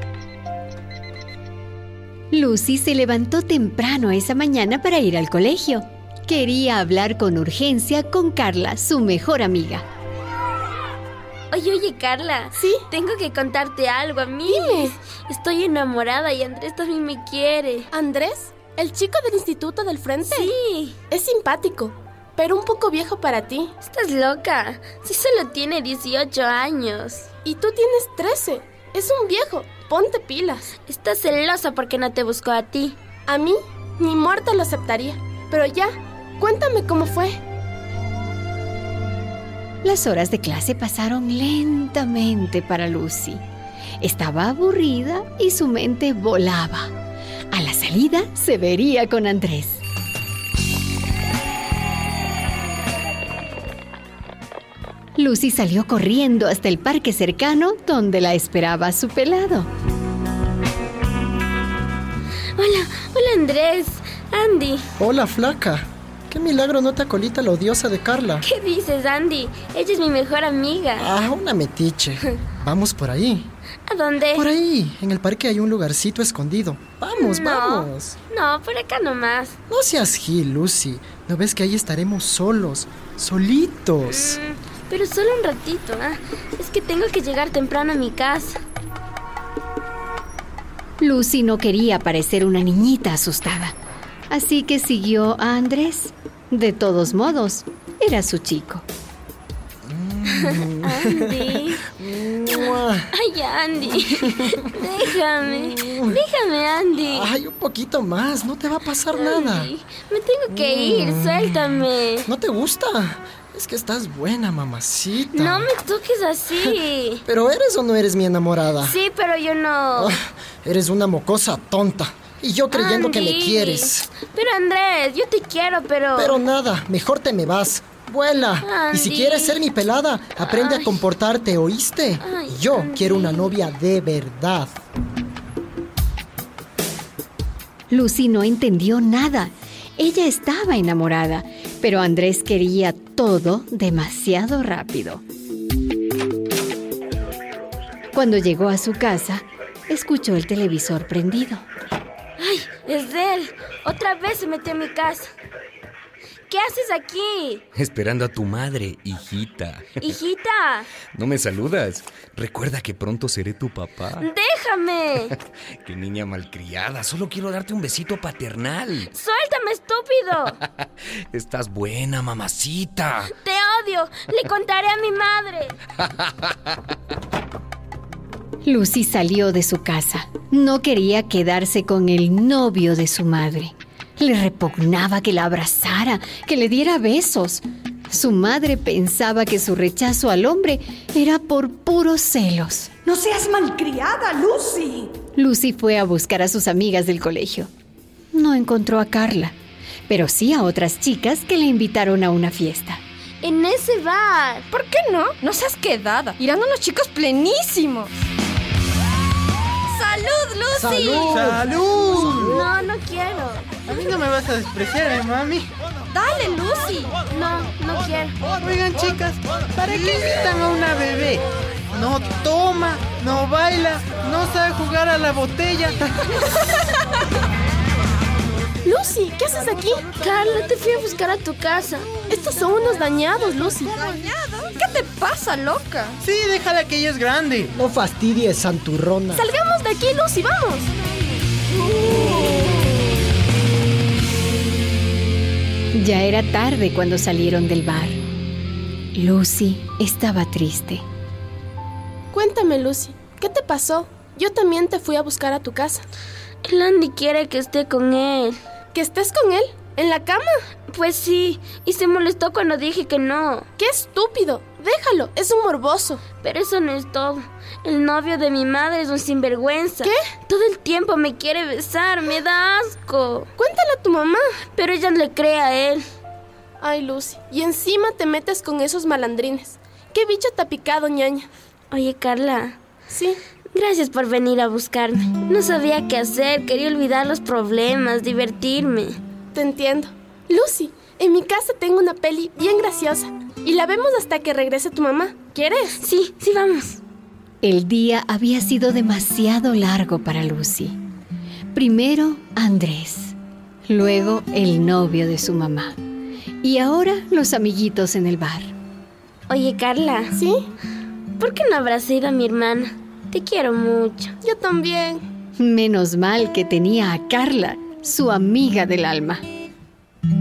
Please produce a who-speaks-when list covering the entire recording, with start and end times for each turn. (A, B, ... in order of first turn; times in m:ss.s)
0:02.3-0:09.8 A
0:11.5-0:17.9 B
0:12.6-0:12.8 C
0:14.5-0:15.0 C
0:17.9-0:20.5 C
0:20.3-0:21.0 B
0:21.1-0:23.7 C
0:23.8-0:27.3 B
0:27.4-0:30.7 C
0:30.9-0:33.0 B
0:33.3-0:37.4 C
0:39.8-0:43.4 A
0:44.0-0:46.9 A
0:47.5-0:49.8 A
0:55.2-0:59.7 A
1:02.6-1:04.8 B
1:05.0-1:08.5 D
1:08.4-1:11.1 B
1:11.0-1:13.5 D
1:13.9-1:14.5 B
1:14.3-1:18.2 D
1:17.2-1:19.6 B
1:19.7-1:24.4 D
1:24.1-1:28.6 B
1:31.0-1:33.8 A
1:34.3-1:38.8 A
1:39.8-1:43.1 D
1:40.3-1:41.9 B
1:42.5-1:47.3 B
1:43.9-1:44.4 D
1:45.4-1:46.2 D
1:47.0-1:49.7 D
1:49.1-1:52.3 B
1:50.5-1:55.7 D
1:55.3-1:57.2 B
1:57.3-1:59.0 D
1:58.8-2:00.2 B
2:00.0-2:04.1 D
2:02.7-2:06.4 B
2:06.2-2:14.7 D
2:08.6-2:09.6 B
2:10.5-2:11.0 B
2:12.2-2:13.6 B
2:17.9-2:25.2 A
2:28.1-2:31.6 A
2:32.4-2:35.3 B
2:36.5-2:37.7 B
2:37.8-2:40.1 E
2:40.0-2:40.9 B
2:41.1-2:44.3 E
2:44.2-2:45.3 B
2:45.8-2:49.1 E
2:49.1-2:50.6 B
2:50.8-2:53.3 E
2:53.4-2:55.8 B
2:56.0-2:56.6 E
2:58.6-3:13.3 A
3:13.2-3:15.1 F
3:15.4-3:17.7 A
3:18.3-3:19.6 A
3:20.1-3:23.0 A
3:23.4-3:24.7 B
3:24.7-3:28.1 F
3:29.9-3:31.5 F
3:30.7-3:31.8 D
3:31.3-3:32.6 G
3:32.1-3:33.8 B
3:33.9-3:35.7 G
3:36.1-3:37.2 F
3:37.3-3:38.4 B
3:38.6-3:46.3 G
3:48.8-3:50.0 C
3:50.2-3:52.1 B
3:52.3-3:54.1 C
3:53.9-3:56.2 F
3:56.2-3:57.7 G
3:57.7-3:59.5 D
3:59.4-4:00.9 C
4:06.0-4:08.2 A
4:09.2-4:11.0 A
4:12.3-4:16.1 C
4:16.6-4:18.6 B
4:18.9-4:20.6 C
4:20.9-4:23.7 B
4:23.8-4:26.2 C
4:26.4-4:33.5 B
4:33.6-4:34.5 C
4:34.8-4:36.0 B
4:36.8-4:41.5 C
4:41.9-4:42.8 B
4:43.1-4:43.4 C
4:43.7-4:49.2 B
4:49.5-4:56.0 C
4:55.9-4:57.0 B
4:57.6-5:01.0 A
5:01.7-5:03.4 A
5:03.9-5:06.0 A
5:06.6-5:08.7 A
5:09.5-5:10.4 B
5:10.4-5:10.7 C
5:11.4-5:14.3 B
5:14.4-5:15.2 C
5:15.6-5:19.4 A